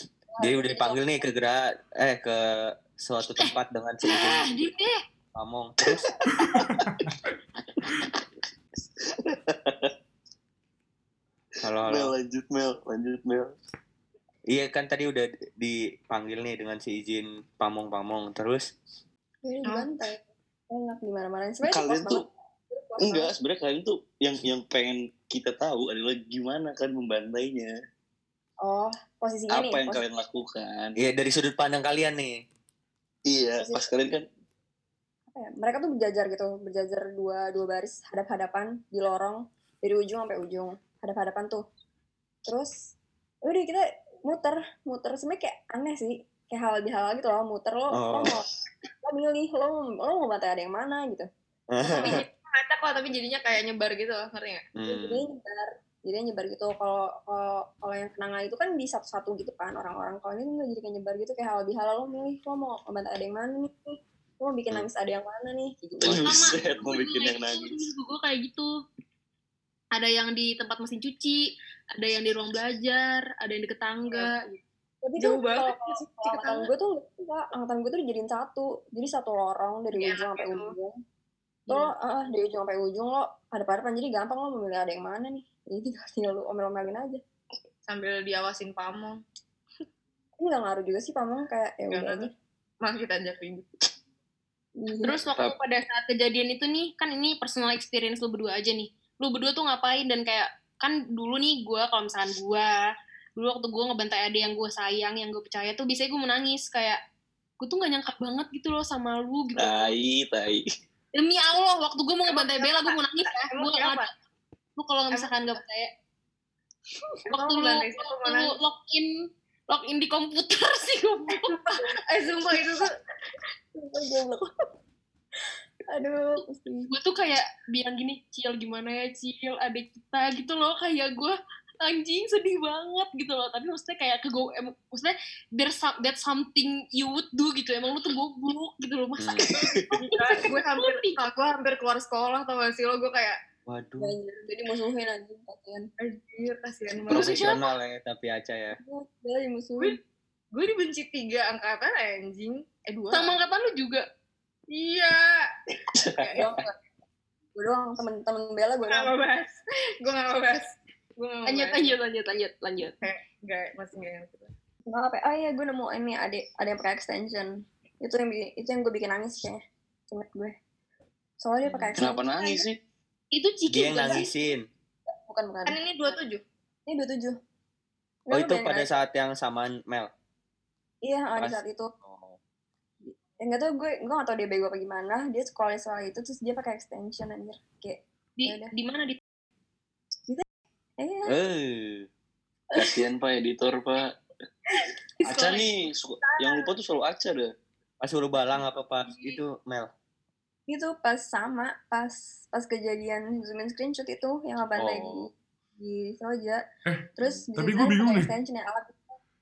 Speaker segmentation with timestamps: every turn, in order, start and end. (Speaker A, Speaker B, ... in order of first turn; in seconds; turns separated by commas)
Speaker A: 0.3-1.1, Speaker B: 0.4-4.6, Speaker C: 3.4-5.0, Speaker B: 5.3-6.0, Speaker D: 5.8-7.1, Speaker E: 6.4-7.1, Speaker D: 9.0-9.9, Speaker B: 11.6-12.1, Speaker D: 11.9-13.5, Speaker B: 14.5-18.7, Speaker A: 19.4-23.3, Speaker D: 21.7-22.2, Speaker D: 23.0-27.7, Speaker A: 28.6-30.0, Speaker D: 29.5-30.9, Speaker B: 31.0-32.4, Speaker D: 33.3-34.2, Speaker A: 33.6-33.8, Speaker A: 35.3-41.6, Speaker A: 42.5-42.9, Speaker A: 43.4-48.5, Speaker B: 47.9-48.4, Speaker A: 49.0-51.3, Speaker B: 51.7-52.2, Speaker A: 51.9-52.2, Speaker F: 51.9-54.6, Speaker B: 54.8-55.2, Speaker A: 54.9-66.4, Speaker D: 66.0-67.9, Speaker C: 66.2-68.7, Speaker C: 69.9-74.6, Speaker A: 75.0-81.0, Speaker F: 75.2-76.7, Speaker F: 80.0-80.7, Speaker A: 81.7-87.2, Speaker F: 87.9-89.2, Speaker A: 90.4-92.3, Speaker F: 91.9-92.3, Speaker F: 92.8-93.7, Speaker A: 94.8-95.2, Speaker C: 95.0-102.8, Speaker C: 103.4-107.0, Speaker C: 107.6-109.9, Speaker D: 109.5-110.7, Speaker C: 111.1-114.1, Speaker F: 112.3-114.1, Speaker C: 114.8-115.9, Speaker F: 115.1-115.6, Speaker F: 117.3-118.5, Speaker C: 117.3-119.1, Speaker C: 119.7-121.8, Speaker F: 121.4-122.9, Speaker A: 122.5-122.8, Speaker A: 123.7-124.5, Speaker A: 125.9-126.9, Speaker C: 126.9-141.2, Speaker B: 139.2-139.6, Speaker D: 139.5-139.9, Speaker F: 140.0-143.4, Speaker B: 143.7-144.2, Speaker A: 144.0-145.9, Speaker F: 146.0-147.6, Speaker B: 147.1-148.8, Speaker C: 147.1-147.6, Speaker A: 148.8-150.0, Speaker F: 150.5-153.4, Speaker C: 153.1-154.0, Speaker F: 154.7-155.4, Speaker D: 155.9-156.3, Speaker F: 156.2-156.5, Speaker A: 156.3-156.7, Speaker A: 157.6-159.1, Speaker F: 158.9-161.9, Speaker C: 161.4-163.0, Speaker F: 163.0-164.5, Speaker A: 164.9-170.6, Speaker A: 171.4-172.6, Speaker B: 171.6-172.0, Speaker D: 172.0-172.8, Speaker C: 173.3-174.3, Speaker B: 173.7-174.7, Speaker A: 175.1-175.8, Speaker F: 175.7-176.4, Speaker A: 176.9-177.4, Speaker A: 178.3-178.9, Speaker B: 178.3-180.1, Speaker A: 181.0-181.9, Speaker B: 181.4-182.4, Speaker A: 183.0-188.7, Speaker C: 188.4-189.2, Speaker A: 191.0-191.3, Speaker B: 191.2-192.1, Speaker D: 192.7-194.1, Speaker D: 195.2-197.5, Speaker B: 198.0-199.9, Speaker C: 199.1-199.4, Speaker A: 200.7-206.6, Speaker B: 204.8-205.3, Speaker E: 206.8-208.3, Speaker A: 207.2-209.2